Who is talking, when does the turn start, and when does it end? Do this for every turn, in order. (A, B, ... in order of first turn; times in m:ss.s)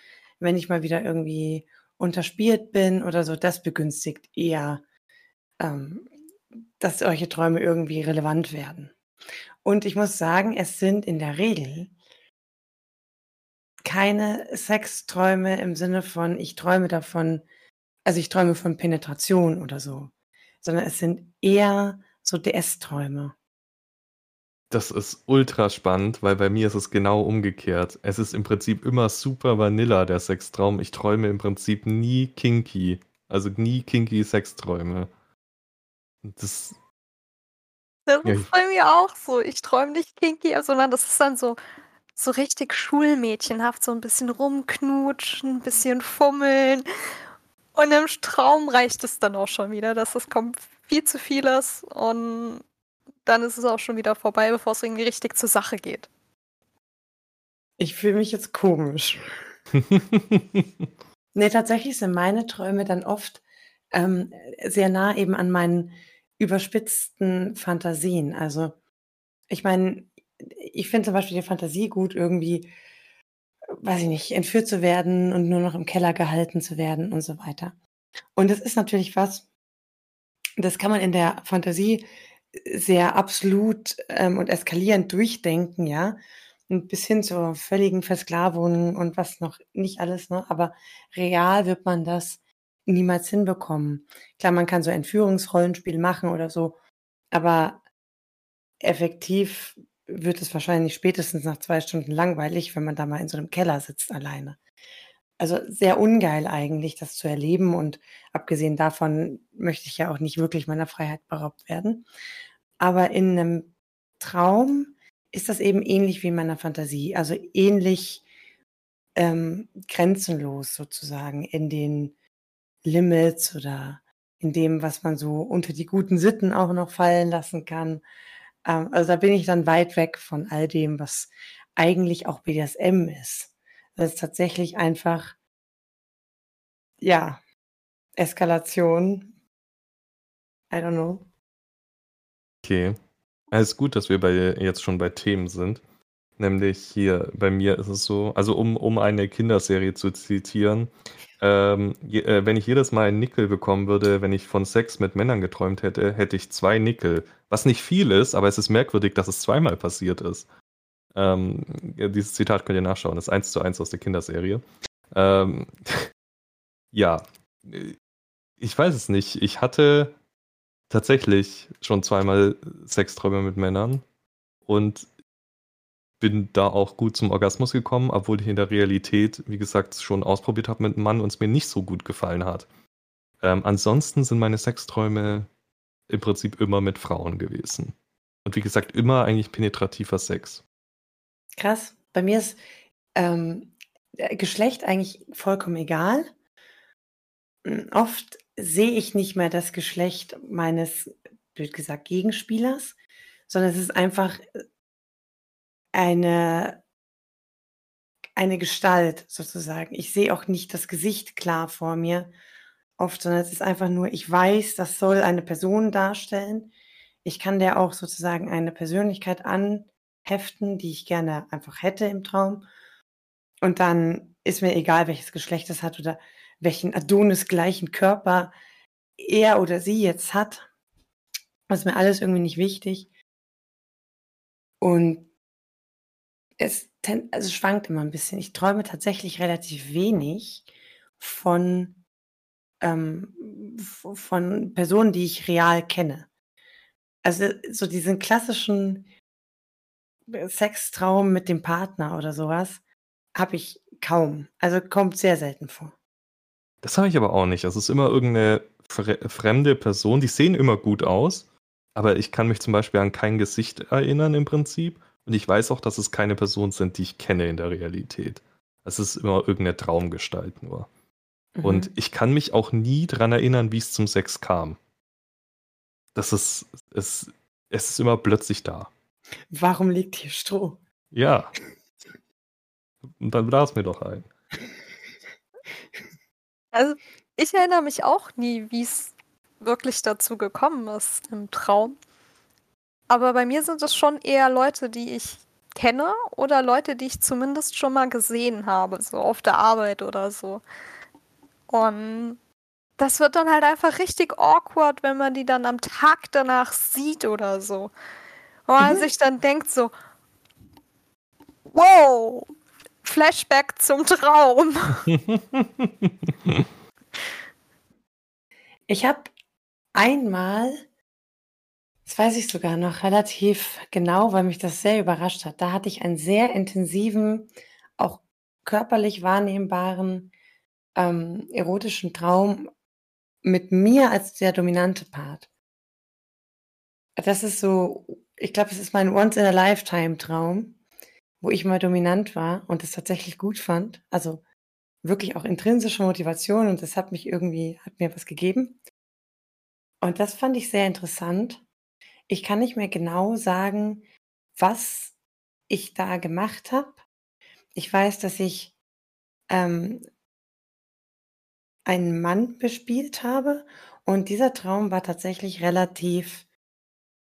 0:00.4-0:04.8 A
0:05.6-0:06.1 A
0:06.8-0:08.9 A
0:09.6-0:11.9 A
0:13.8-0:17.4 A
0:18.0-0:23.4 A
0:24.7-0:35.1 B
0:36.2-0:36.8 B
0:38.1-0:41.6 C
0:38.2-0:38.5 B
0:42.2-0:46.9 C
0:47.8-0:52.6 C
0:53.2-0:56.1 C
0:57.8-0:59.2 A
0:59.8-1:00.7 B
1:01.3-1:08.8 A
1:09.5-1:12.7 A
1:13.8-1:17.8 A
1:18.4-1:19.5 A
1:20.6-1:26.2 A
1:26.7-1:36.8 A
1:37.3-1:37.8 A
1:38.8-1:44.6 A
1:45.4-1:52.1 A
1:52.8-1:58.2 A
1:59.2-2:02.2 A
2:02.8-2:08.0 A
2:08.6-2:15.4 A
2:17.0-2:17.4 A
2:18.2-2:19.3 A
2:20.7-2:21.3 A
2:22.6-2:23.0 B
2:23.5-2:25.8 B
2:26.4-2:40.5 B
2:41.2-2:46.1 B
2:46.9-2:48.0 B
2:48.6-2:50.2 B
2:50.9-2:54.0 B
2:54.7-2:55.1 B
2:56.2-3:02.7 B
3:03.4-3:05.5 B
3:06.1-3:10.6 B
3:11.6-3:12.6 A
3:13.2-3:16.3 A
3:17.6-3:23.0 A
3:23.5-3:24.4 A
3:25.9-3:26.8 A
3:28.4-3:32.3 A
3:33.0-3:36.7 A
3:37.2-3:42.7 A
3:43.6-3:48.5 A
3:49.2-3:50.7 A
3:51.7-3:53.1 A
3:54.8-3:55.3 A
3:56.6-4:00.7 A
4:01.2-4:02.0 A
4:02.8-4:06.3 A
4:07.2-4:09.1 A
4:10.3-4:12.8 A
4:13.3-4:16.0 A
4:16.8-4:30.9 B
4:31.6-4:31.9 A
4:31.6-4:34.8 B
4:36.2-4:38.9 B
4:39.5-4:40.8 A
4:41.1-4:41.5 B
4:43.2-4:44.3 B
4:46.7-4:52.0 C
4:53.1-5:00.6 C
5:01.7-5:02.4 C
5:03.0-5:07.9 C
5:08.7-5:09.9 C
5:08.8-5:09.1 A
5:11.7-5:12.5 C
5:13.0-5:15.1 C
5:15.3-5:16.6 B
5:18.9-5:19.3 A
5:19.9-5:20.8 A
5:22.0-5:30.3 A
5:31.0-5:32.7 A
5:33.4-5:35.5 A
5:37.2-5:40.8 A
5:41.4-5:44.4 A
5:45.0-5:48.8 A
5:50.0-5:51.6 A
5:52.3-5:54.0 A
5:54.6-5:55.2 A
5:55.7-5:57.0 A
5:57.8-5:58.8 A
5:59.5-6:00.0 A
6:01.9-6:06.4 A